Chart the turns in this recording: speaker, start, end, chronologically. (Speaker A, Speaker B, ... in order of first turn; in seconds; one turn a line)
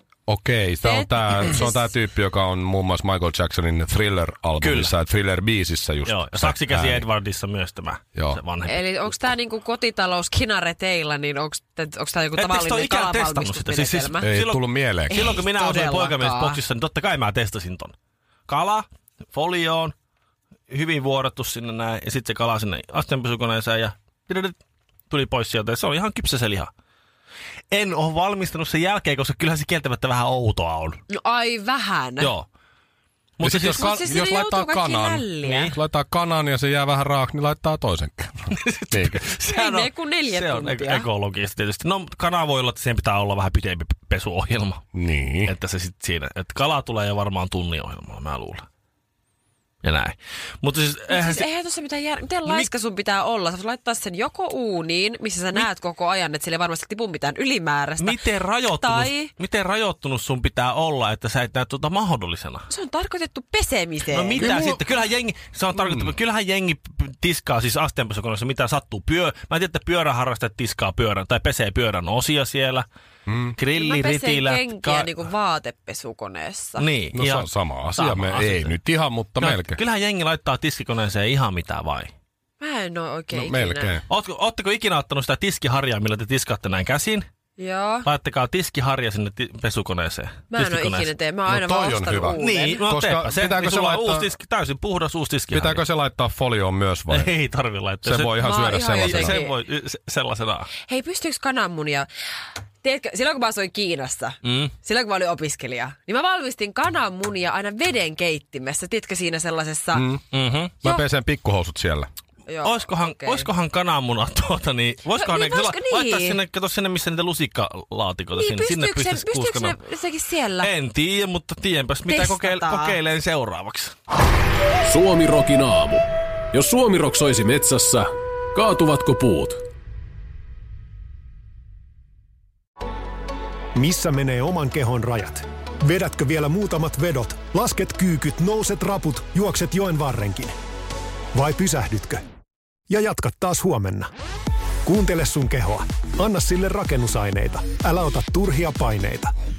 Speaker A: 0.3-7.1
Speaker B: 0.8-1.9
Speaker C: 4.6-5.0
Speaker C: 6.1-9.3
Speaker A: 8.2-8.4
Speaker B: 8.6-14.3
Speaker C: 12.4-17.9
Speaker A: 14.2-15.3
Speaker B: 15.1-16.6
Speaker C: 18.5-19.9
Speaker C: 20.7-24.6
Speaker C: 25.1-26.7
Speaker C: 27.7-31.0
Speaker B: 31.1-32.3
Speaker C: 32.2-32.5
Speaker C: 33.4-34.1
Speaker A: 33.4-39.3
Speaker B: 33.7-35.7
Speaker C: 38.5-44.9
Speaker B: 39.5-41.1
Speaker A: 44.9-45.5
Speaker C: 45.4-48.7
Speaker C: 49.8-51.5
Speaker B: 51.1-58.2
Speaker C: 58.0-62.7
Speaker B: 58.8-59.3
Speaker B: 62.7-64.7
Speaker C: 64.1-72.9
Speaker A: 64.4-64.8
Speaker A: 65.9-66.1
Speaker A: 73.3-73.6
Speaker C: 73.6-75.2
Speaker B: 73.7-76.9
Speaker C: 76.8-78.8
Speaker A: 77.1-79.8
Speaker C: 79.4-82.1
Speaker B: 82.6-84.0
Speaker A: 83.3-84.0
Speaker C: 84.1-87.3
Speaker B: 87.6-88.1
Speaker C: 88.0-91.1
Speaker B: 90.5-92.9
Speaker A: 91.5-94.3
Speaker C: 92.4-95.8
Speaker A: 95.5-97.3
Speaker C: 97.1-98.3
Speaker A: 98.0-99.4
Speaker B: 98.4-99.6
Speaker C: 99.0-100.7
Speaker B: 100.9-102.1
Speaker B: 102.8-110.1
Speaker C: 104.4-104.7
Speaker A: 109.9-110.2
Speaker C: 110.3-110.7
Speaker A: 110.8-112.1
Speaker B: 112.5-113.5
Speaker C: 112.6-119.8
Speaker B: 115.1-116.4
Speaker B: 118.3-120.7
Speaker C: 120.6-123.9
Speaker B: 122.1-123.0
Speaker D: 124.9-129.6
Speaker E: 133.8-140.6
Speaker E: 141.3-142.2
Speaker E: 142.9-144.1
Speaker E: 144.8-149.3